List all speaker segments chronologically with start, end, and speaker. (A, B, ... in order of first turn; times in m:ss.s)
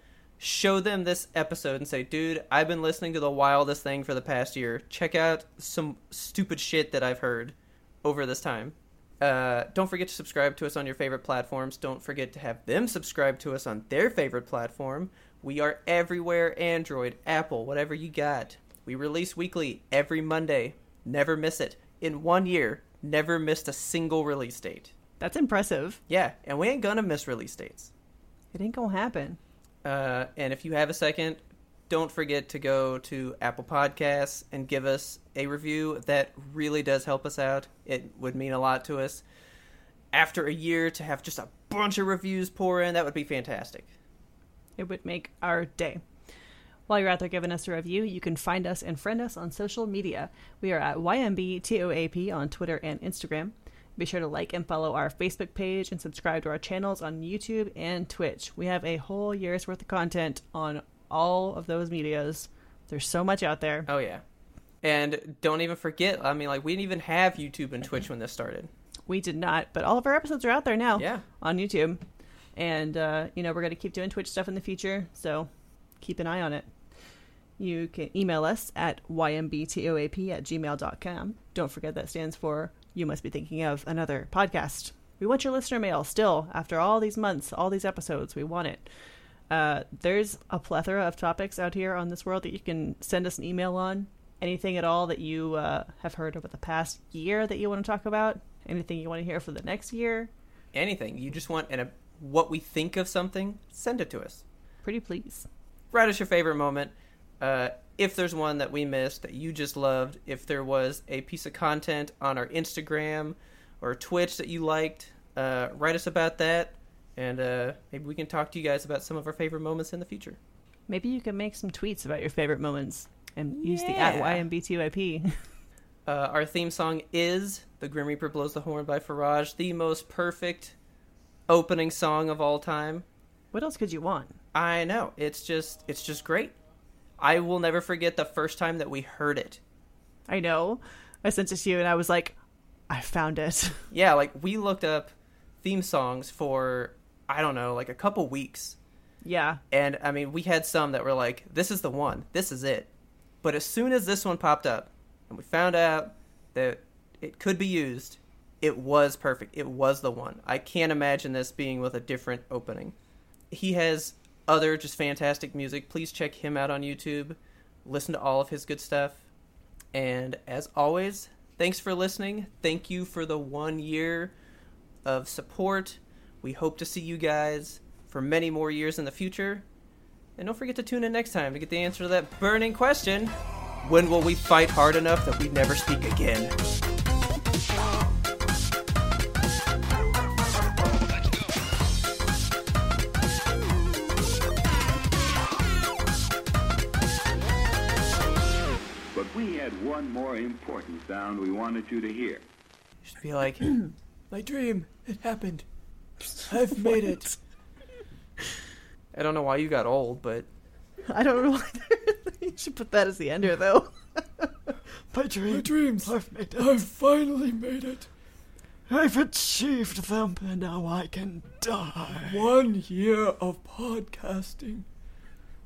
0:00.4-0:24.9 A
0:25.2-0:26.0 B
0:26.1-0:27.9 A
0:28.5-0:29.4 B
0:29.8-0:39.2 A
0:40.1-0:43.9 A
0:44.8-0:46.0 B
0:46.9-1:03.9 B
1:03.9-1:04.2 A
1:04.8-1:08.7 A
1:09.1-1:12.0 B
1:11.0-1:11.2 A
1:12.5-1:15.5 B
1:16.0-1:16.7 B
1:17.6-1:28.9 B
1:29.5-1:40.3 B
1:40.7-1:44.4 A
1:44.8-1:45.5 B
1:45.9-2:00.4 A
2:00.9-2:05.4 B
2:03.6-2:04.5 A
2:06.0-2:10.7 A
2:11.5-2:13.0 A
2:13.5-2:14.3 B
2:14.5-2:16.6 A
2:17.2-2:19.6 A
2:20.3-2:22.4 B
2:22.9-2:23.8 B
2:23.9-2:28.8 A
2:29.2-2:29.6 B
2:29.7-2:32.9 A
2:33.4-2:43.0 A
2:43.5-2:49.2 A
2:49.9-2:54.3 A
2:55.0-2:59.7 A
3:00.4-3:06.6 A
3:19.1-3:22.4 C
3:23.0-3:23.7 A
3:24.3-3:25.6 D
3:26.5-3:27.3 D
3:29.1-3:30.5 A
3:31.1-3:36.6 B
3:35.5-3:38.1 D
3:38.9-3:42.3 B
3:42.1-3:44.9 D